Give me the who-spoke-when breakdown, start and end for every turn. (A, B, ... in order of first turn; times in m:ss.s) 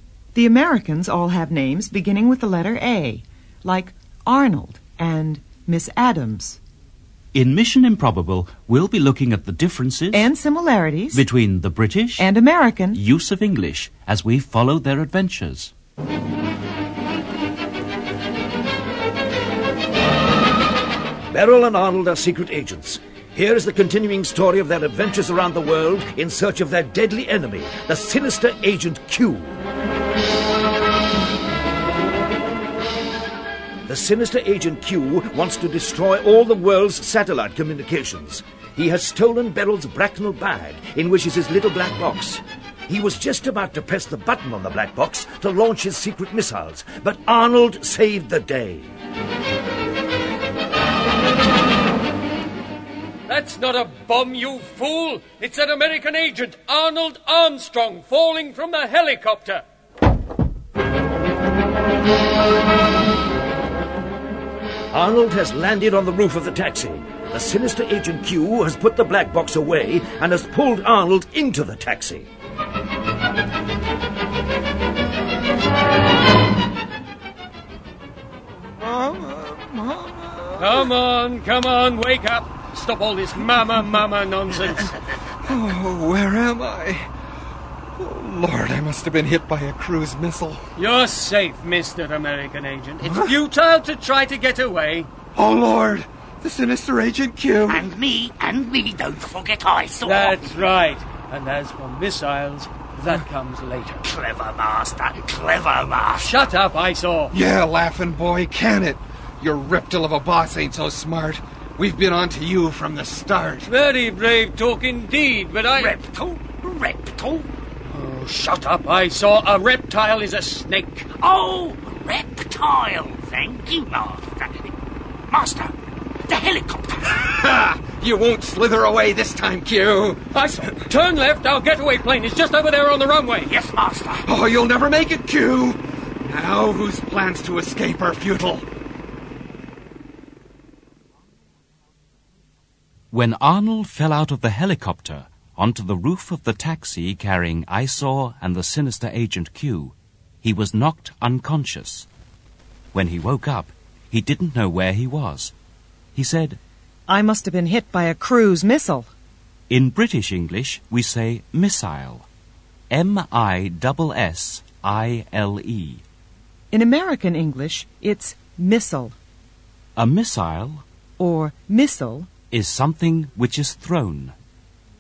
0:00.4-0:06.6 A
0:07.3-0:10.3 B
0:10.1-0:11.2 A
0:11.1-0:12.3 B
0:12.2-0:13.0 A
0:12.9-0:15.7 B
0:21.3-0:29.6 C
0:33.9-0:48.9 C
0:53.3-0:59.6 D
1:04.9-1:12.3 C
1:18.8-1:20.9 E
1:20.6-1:24.9 D
1:25.5-1:27.1 E
1:28.0-1:30.6 E
1:30.8-1:35.1 D
1:33.1-1:33.3 E
1:35.4-1:37.9 E
1:37.7-1:40.7 F
1:40.0-1:44.0 D
1:44.0-1:46.4 F
1:46.2-1:47.3 D
1:47.3-1:53.7 E
1:53.7-1:56.0 D
1:55.8-1:57.5 F
1:57.9-2:01.1 D
2:01.2-2:04.7 F
2:05.3-2:05.7 F
2:06.3-2:07.3 F
2:07.2-2:10.3 E
2:10.3-2:13.5 D
2:13.5-2:14.3 F
2:14.3-2:18.6 E
2:23.1-2:32.1 B
2:32.9-2:35.5 B
2:36.2-2:36.6 B
2:37.1-2:39.1 A
2:39.7-2:42.3 B
2:42.9-2:46.0 B
2:46.7-2:49.2 A
2:50.0-2:50.8 B
2:51.2-2:52.3 A
2:52.5-2:54.4 B